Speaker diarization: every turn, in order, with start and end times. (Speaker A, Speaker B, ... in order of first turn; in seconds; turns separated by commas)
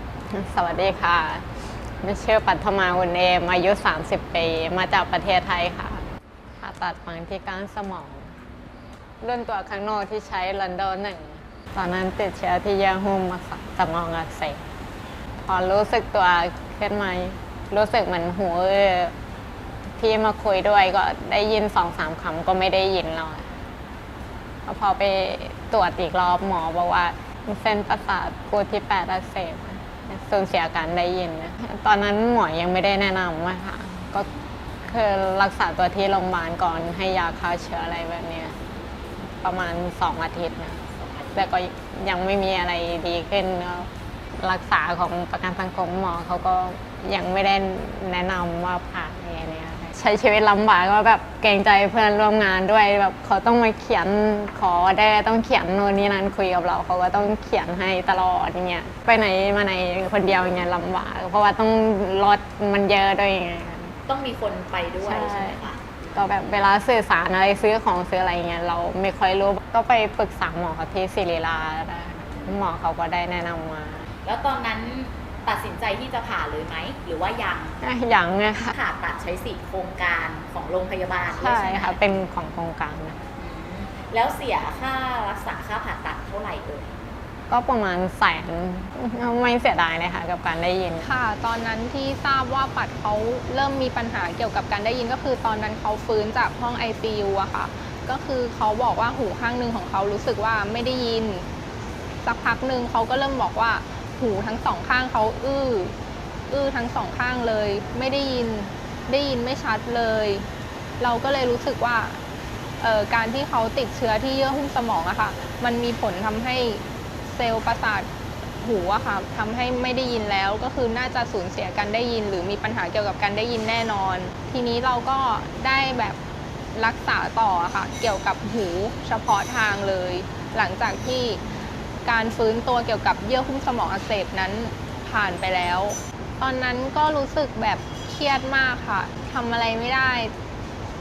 Speaker A: 0.3-6.0, Speaker A: 6.6-8.3, Speaker A: 9.2-14.7, Speaker A: 15.4-19.1, Speaker A: 20.0-23.5, Speaker A: 24.7-34.3, Speaker A: 34.9-38.6, Speaker A: 39.4-64.0, Speaker B: 41.0-41.5, Speaker B: 64.1-65.8, Speaker A: 65.0-74.1, Speaker B: 74.2-77.8, Speaker A: 77.8-78.8, Speaker B: 78.7-82.0, Speaker A: 81.3-83.2, Speaker B: 83.4-86.9, Speaker A: 87.5-91.1, Speaker C: 91.0-101.5, Speaker C: 102.2-105.9, Speaker C: 106.5-110.5, Speaker C: 111.0-112.2, Speaker C: 112.8-126.2, Speaker C: 126.8-131.4, Speaker C: 132.0-140.3